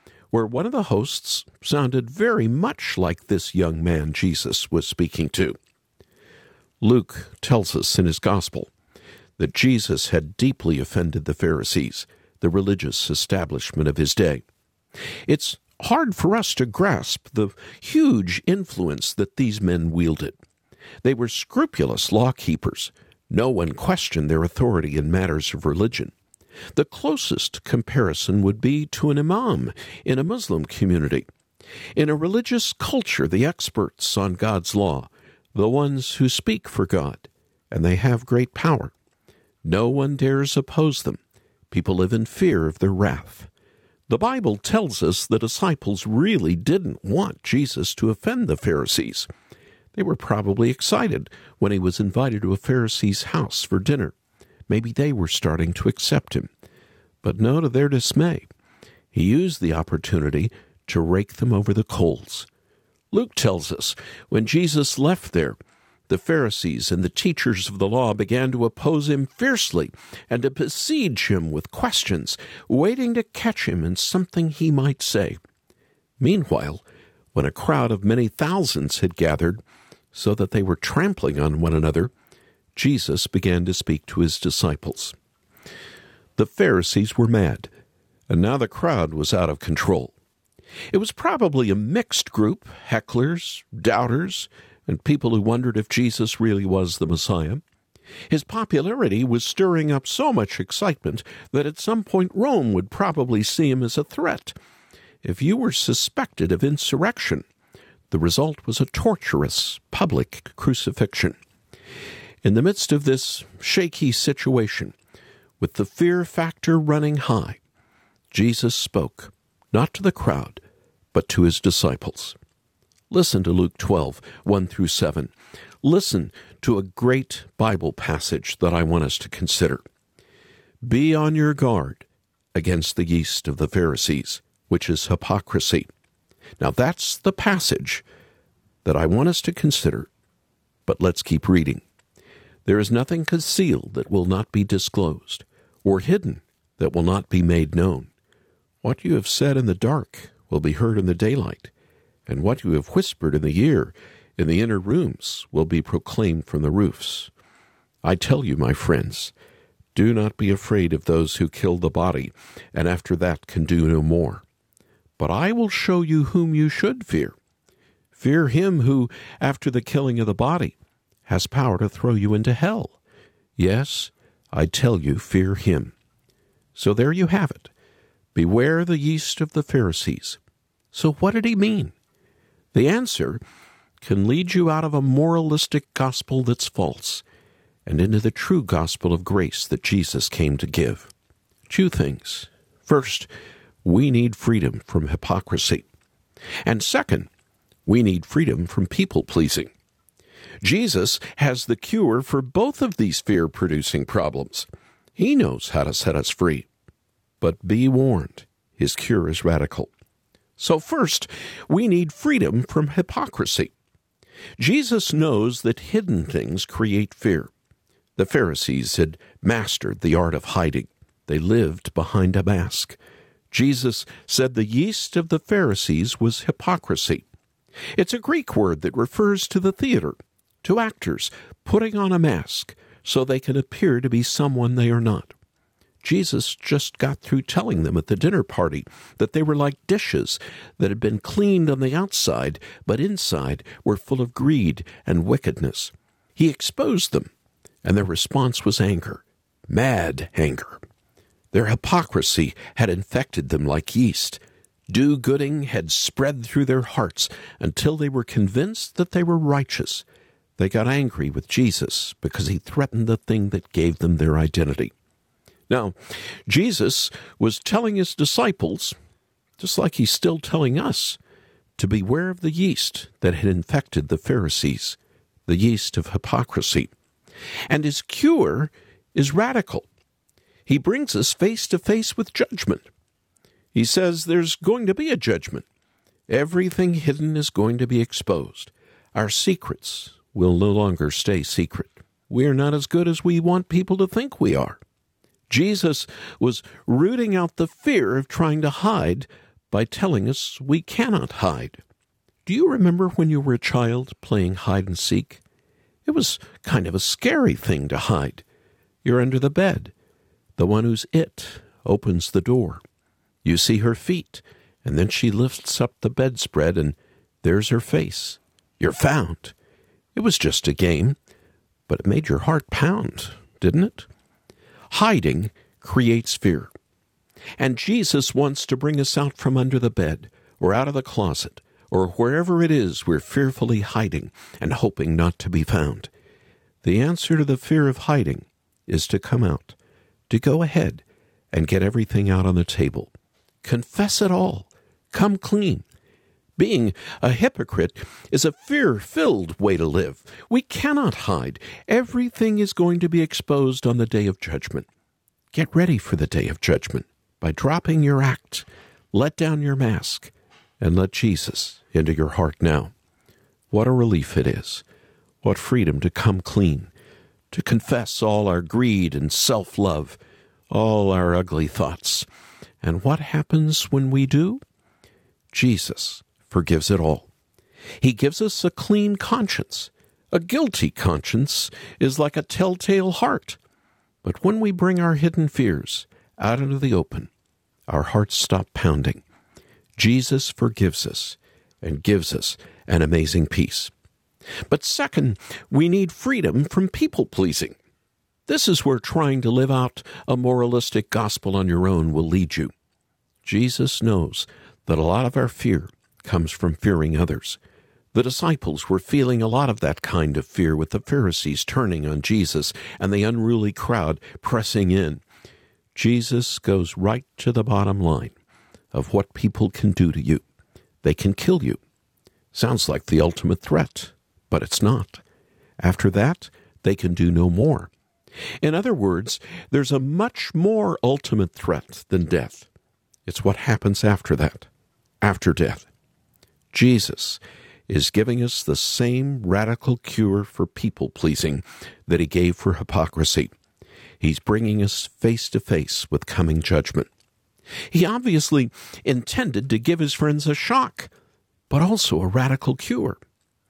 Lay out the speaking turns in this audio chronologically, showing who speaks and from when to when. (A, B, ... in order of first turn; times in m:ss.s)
0:00.3-0:05.6 A
0:06.8-0:08.7 A
0:09.4-0:14.4 A
0:15.3-0:20.4 A
0:21.0-0:26.1 A
0:26.7-0:31.3 A
0:32.0-0:38.9 A
0:39.6-0:43.5 A
0:44.1-0:49.3 A
0:49.9-0:54.1 A
0:54.7-0:56.5 A
0:57.2-0:58.5 A
0:59.1-1:02.5 A
1:03.1-1:05.6 A
1:06.1-1:15.4 A
1:16.2-1:19.6 A
1:20.1-1:22.1 A
1:22.7-1:25.1 A
1:26.4-1:27.7 A
1:28.3-1:30.1 A
1:30.9-1:37.6 A
1:38.3-1:44.6 A
1:45.2-1:47.4 A
1:48.1-1:51.4 A
1:52.4-1:54.9 A
1:55.6-1:57.6 A
1:58.3-2:00.6 A
2:01.1-2:02.4 A
2:03.1-2:05.3 A
2:05.8-2:09.8 A
2:10.8-2:15.9 A
2:16.6-2:18.0 A
2:18.8-2:20.1 A
2:20.9-2:21.8 A
2:22.6-2:28.1 A
2:28.8-2:31.7 A
2:32.3-2:37.3 A
2:38.0-2:39.3 A
2:39.9-2:44.4 A
2:45.2-2:47.4 A
2:48.1-2:50.7 A
2:51.2-2:53.0 A
2:53.6-2:55.9 A
2:56.7-2:57.7 A
2:58.3-3:00.4 A
3:00.9-3:01.9 A
3:02.7-3:03.4 A
3:04.0-3:07.2 A
3:07.8-3:11.1 A
3:11.7-3:13.3 A
3:13.8-3:15.8 A
3:16.6-3:17.3 A
3:17.8-3:19.7 A
3:20.6-3:26.7 A
3:27.4-3:29.9 A
3:30.6-3:33.7 A
3:34.6-3:37.5 A
3:38.2-3:43.0 A
3:43.5-3:47.2 A
3:48.0-3:55.3 A
3:56.0-4:07.3 A
4:07.8-4:10.8 A
4:11.5-4:20.0 A
4:20.6-4:24.9 A
4:25.7-4:25.9 A
4:26.4-4:29.0 A
4:29.6-4:31.2 A
4:31.8-4:36.9 A
4:37.7-4:39.9 A
4:40.6-4:42.8 A
4:43.7-4:45.6 A
4:46.3-4:54.8 A
4:55.5-5:01.8 A
5:02.4-5:05.4 A
5:06.0-5:08.4 A
5:09.0-5:09.9 A
5:10.6-5:12.8 A
5:13.4-5:19.5 A
5:20.1-5:21.2 A
5:21.9-5:24.1 A
5:24.9-5:26.7 A
5:27.6-5:36.1 A
5:36.8-5:39.8 A
5:40.3-5:43.1 A
5:43.6-5:45.8 A
5:46.6-5:54.9 A
5:55.5-6:02.9 A
6:03.7-6:04.8 A
6:05.4-6:06.9 A
6:07.5-6:10.2 A
6:10.7-6:12.3 A
6:12.8-6:14.6 A
6:15.5-6:17.3 A
6:18.0-6:23.6 A
6:24.2-6:27.3 A
6:27.9-6:29.2 A
6:30.0-6:33.9 A
6:34.7-6:37.8 A
6:38.5-6:42.7 A
6:43.4-6:47.6 A
6:48.1-6:55.2 A
6:55.9-6:58.3 A
6:58.9-7:00.4 A
7:01.0-7:01.8 A
7:02.5-7:05.2 A
7:05.8-7:07.9 A
7:08.6-7:12.7 A
7:13.3-7:14.7 A
7:15.2-7:15.9 A
7:16.7-7:23.5 A
7:24.2-7:27.1 A
7:27.9-7:31.1 A
7:31.7-7:33.2 A